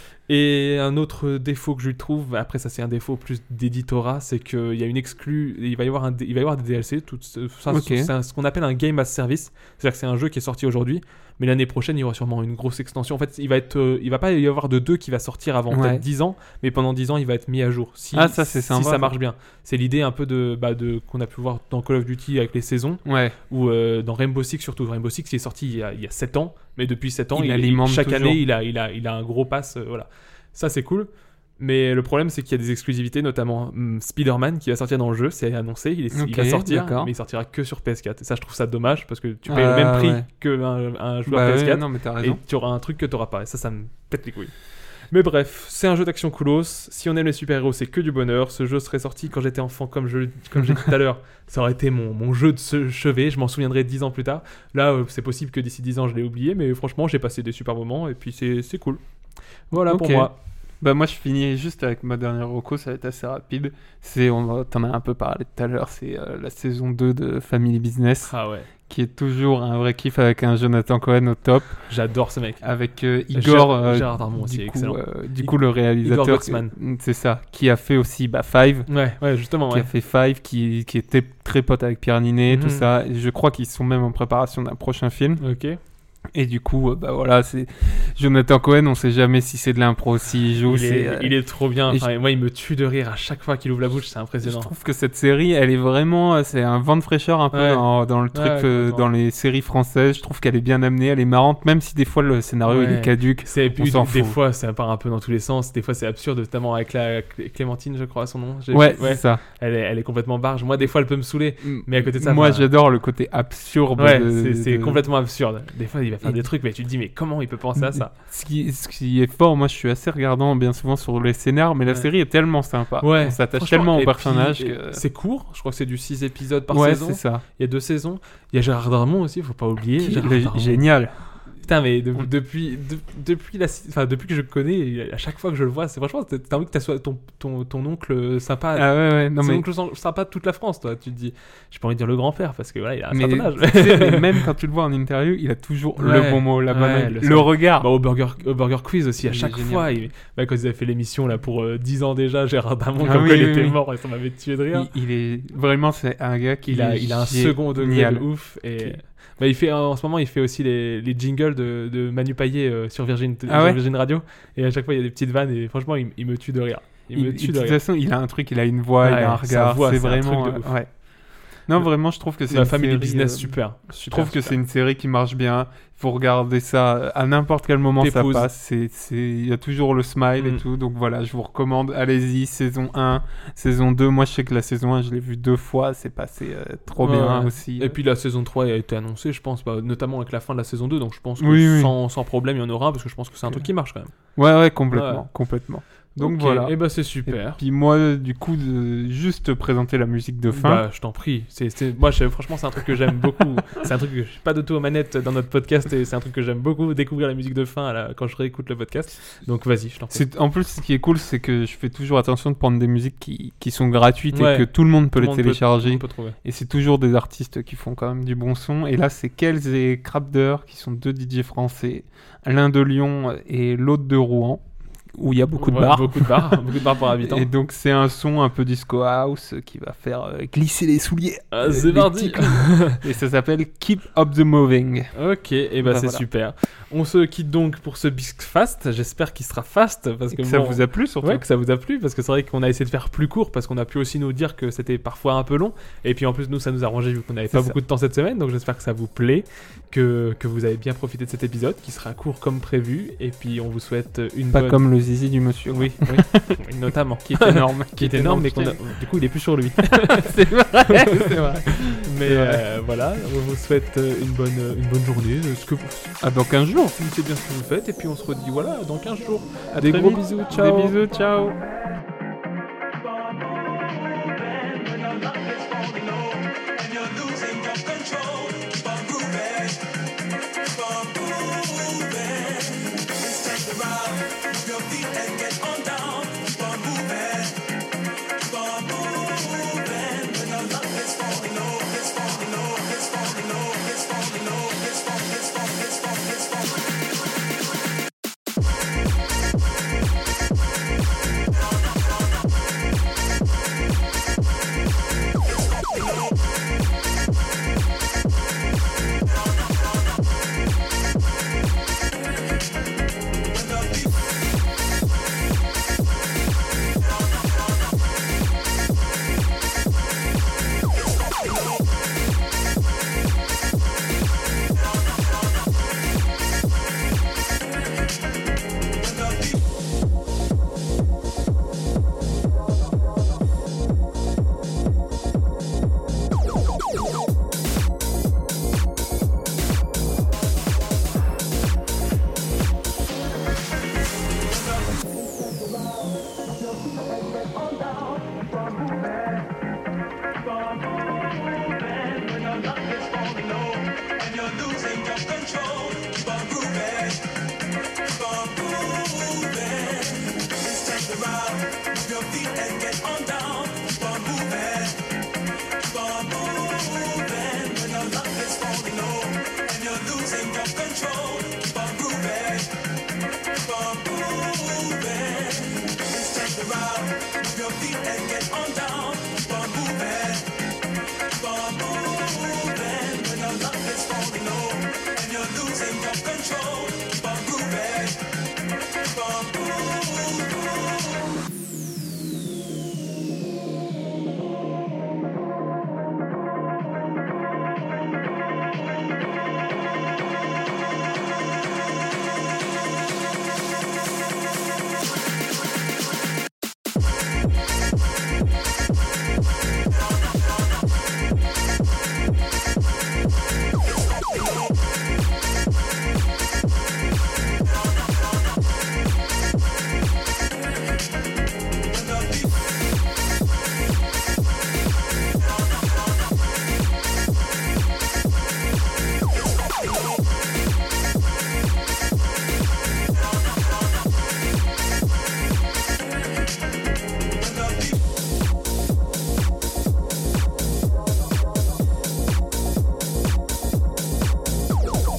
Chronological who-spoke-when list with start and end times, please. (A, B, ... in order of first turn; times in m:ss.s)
0:00.3-0:44.5 A
0:07.7-0:08.1 B
0:15.7-0:16.0 B
0:18.1-0:19.1 B
0:23.0-0:23.4 B
0:27.3-0:28.4 B
0:36.1-0:37.1 B
0:39.5-0:40.3 B
0:41.3-0:42.4 B
0:45.1-0:59.0 A
0:59.7-1:00.4 A
0:59.8-1:08.3 B
1:08.3-1:08.7 A
1:08.9-1:11.8 B
1:11.9-1:12.6 A
1:12.6-1:18.9 B
1:13.3-1:16.7 A
1:18.9-1:19.9 A
1:19.7-1:25.4 B
1:22.5-1:22.8 A
1:25.4-1:25.8 A
1:26.3-1:31.3 B
1:30.7-1:34.7 A
1:34.4-1:44.4 B
1:37.5-1:39.1 A
1:42.7-1:52.7 A
1:48.7-1:49.4 B
1:51.6-1:55.0 B
1:54.0-1:58.1 A
1:57.8-2:05.0 B
2:03.0-2:10.8 A
2:06.7-2:07.4 B
2:10.0-2:11.2 B
2:11.6-2:24.4 A
2:18.8-2:19.6 B
2:23.1-2:27.9 B
2:26.0-2:34.9 A
2:29.2-2:29.9 B
2:33.0-2:33.8 B
2:34.7-2:39.0 B
2:36.6-2:47.8 A
2:43.5-2:43.8 B
2:47.1-2:50.9 B
2:49.0-2:50.7 A
2:51.7-3:08.0 B
2:52.5-2:54.6 A
2:58.0-2:58.5 A
3:00.4-3:00.6 A
3:07.0-3:14.1 A
3:11.4-3:11.9 B
3:14.4-3:20.8 B
3:14.9-3:15.2 A
3:16.2-3:17.6 A
3:20.5-3:30.2 A
3:30.1-3:44.6 B
3:34.3-3:36.4 A
3:45.2-3:55.1 B
3:45.6-3:47.5 A
3:51.5-3:53.0 A
3:55.2-4:14.9 A
3:55.8-3:56.2 B
4:00.3-4:01.4 B
4:07.5-4:07.8 B
4:14.5-4:16.6 B
4:15.7-4:20.3 A
4:17.3-4:18.8 B
4:19.9-4:22.6 B
4:20.9-4:26.2 A
4:26.2-4:27.0 B
4:27.0-4:31.0 A
4:29.7-4:31.6 B
4:33.0-4:39.9 C
4:40.6-4:47.7 C
4:48.4-4:56.8 C
5:13.5-5:14.1 C
5:29.0-5:29.6 C
5:44.4-5:49.4 C
5:50.4-5:57.4 C
5:58.0-6:05.1 C
6:05.8-6:12.7 C
6:13.5-6:20.5 C
6:21.3-6:28.3 C
6:29.0-6:30.8 C
7:01.9-7:02.6 C
7:17.4-7:18.0 C